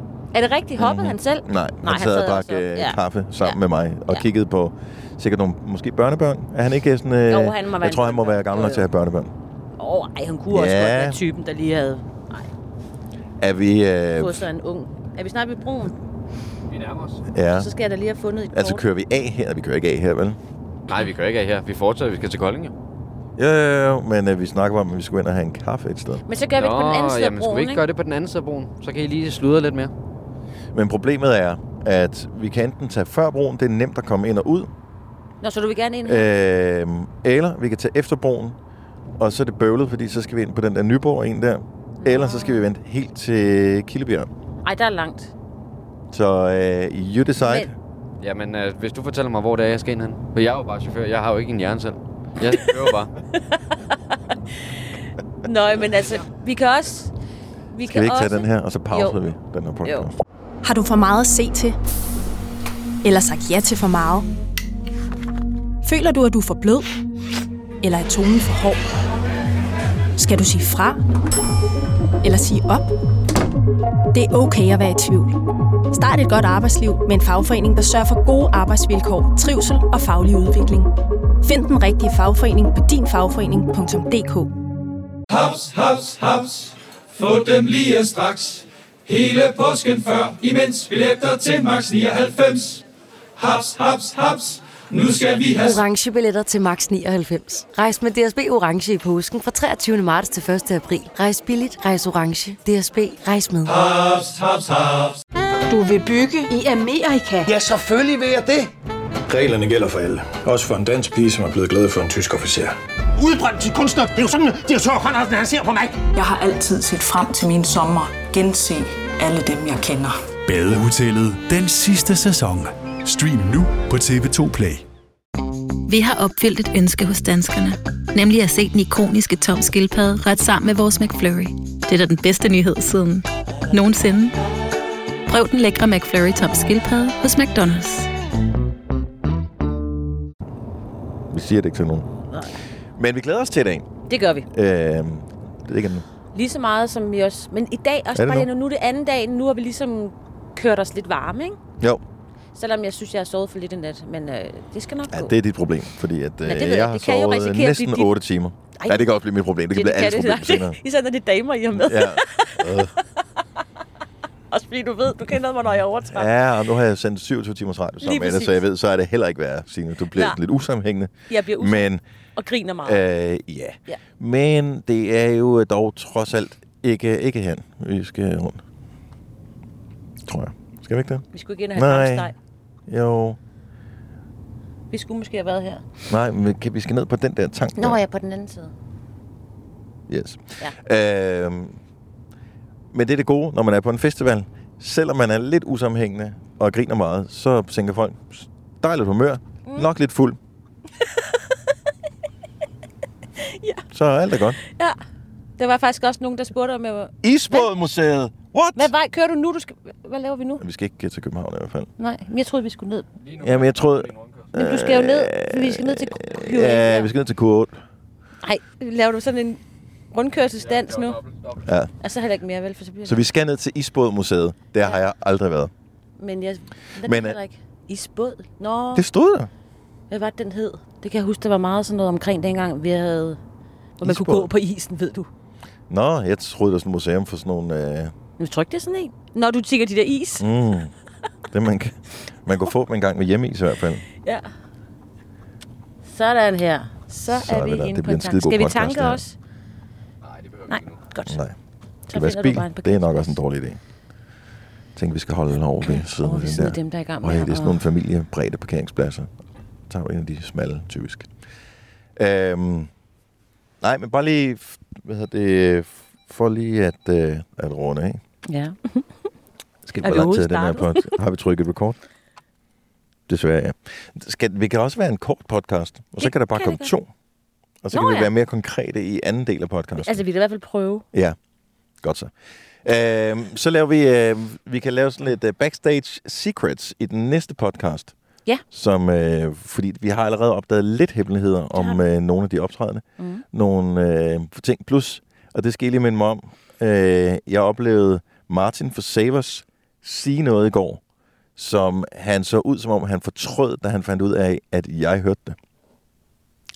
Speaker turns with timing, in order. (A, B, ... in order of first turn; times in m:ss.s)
0:00.3-0:04.2 A
0:00.8-0:09.3 B
0:07.3-0:08.9 A
0:09.8-0:12.5 A
0:10.5-0:11.2 B
0:13.4-0:14.5 B
0:14.2-0:16.0 A
0:16.7-0:17.2 C
0:17.3-0:17.7 B
0:17.5-0:18.8 A
0:18.5-0:20.4 B
0:20.9-0:22.7 C
0:23.4-0:26.2 B
0:26.3-0:27.8 A
0:26.6-0:29.9 C
0:30.7-0:34.7 B
0:35.4-0:36.3 A
0:36.0-0:38.6 B
0:39.2-0:44.3 B
0:42.0-0:42.7 A
0:44.6-0:45.3 A
0:46.1-0:47.7 B
0:47.4-0:47.7 A
0:48.2-0:53.1 C
0:53.3-0:54.4 A
0:55.4-0:57.1 A
0:57.7-0:59.2 A
0:57.8-1:00.1 B
0:59.8-1:00.1 A
1:00.6-1:01.8 D
1:03.0-1:04.3 D
1:05.8-1:06.9 D
1:07.8-1:08.8 D
1:10.2-1:11.0 D
1:12.2-1:12.8 D
1:14.1-1:15.4 D
1:15.9-1:20.9 D
1:21.4-1:24.5 D
1:25.4-1:32.8 E
1:33.4-1:34.6 E
1:35.0-1:44.5 F
1:45.7-1:47.9 G
1:47.5-1:48.7 H
1:49.3-1:52.8 I
1:53.2-1:56.0 H
1:55.1-1:55.4 G
1:56.1-2:00.2 J
2:00.5-2:04.8 K
2:05.9-2:14.3 L
2:15.3-2:17.9 L
2:17.3-2:17.8 A
2:21.3-2:22.1 B
2:22.3-2:22.6 A
2:23.0-2:23.9 B
2:24.1-2:24.5 A
2:24.5-2:26.0 B
2:26.3-2:31.6 A
2:28.2-2:28.5 B
2:32.6-2:35.3 A
2:35.1-2:40.8 B
2:36.4-2:38.1 A
2:38.8-2:39.1 A
2:39.7-2:42.7 A
2:41.7-2:42.9 B
2:44.5-2:46.3 A
2:46.1-2:52.0 B
2:48.0-2:48.6 A
2:50.1-2:50.4 A
2:51.3-2:53.0 A
2:52.8-2:58.6 B
3:00.3-3:02.3 B
3:01.3-3:02.3 A
3:02.9-3:03.4 B
3:04.9-3:05.8 A
3:06.1-3:08.0 B
3:07.8-3:08.7 A
3:10.1-3:11.8 B
3:12.9-3:20.4 B
3:23.4-3:23.8 A
3:23.9-3:24.6 B
3:24.7-3:25.0 A
3:25.6-3:27.7 A
3:27.2-3:28.9 B
3:28.8-3:30.6 A
3:30.6-3:31.9 B
3:32.0-3:33.1 A
3:33.4-3:37.8 B
3:34.5-3:37.1 A
3:38.4-3:39.6 A
3:40.1-3:41.2 A
3:41.6-3:41.9 B
3:42.0-3:43.3 A
3:43.1-3:45.7 B
3:46.2-3:49.0 A
3:47.0-3:47.4 B
3:49.0-3:49.5 B
3:50.1-3:53.4 A
3:54.0-3:55.3 A
3:54.0-3:54.5 B
3:55.9-3:58.1 B
3:58.4-4:00.5 A
4:00.4-4:00.9 B
4:01.5-4:04.0 B
4:06.0-4:09.4 A
4:07.3-4:09.2 B
4:10.7-4:11.4 A
4:11.3-4:11.6 B
4:12.1-4:13.4 A
4:12.1-4:13.8 B
4:15.0-4:19.3 B
4:15.8-4:17.8 A
4:19.9-4:21.3 B
4:22.2-4:22.9 B
4:23.8-4:28.2 B
4:28.5-4:29.0 A
4:29.8-4:32.0 B
4:30.0-4:31.2 A
4:33.3-4:37.1 B
4:36.2-4:37.0 A
4:37.8-4:40.2 B
4:37.9-4:38.3 A
4:40.0-4:41.0 A
4:42.0-4:42.3 B
4:42.8-4:48.1 B
4:48.7-5:01.0 B
4:51.7-4:52.0 A
4:53.2-4:53.4 A
5:01.6-5:05.6 B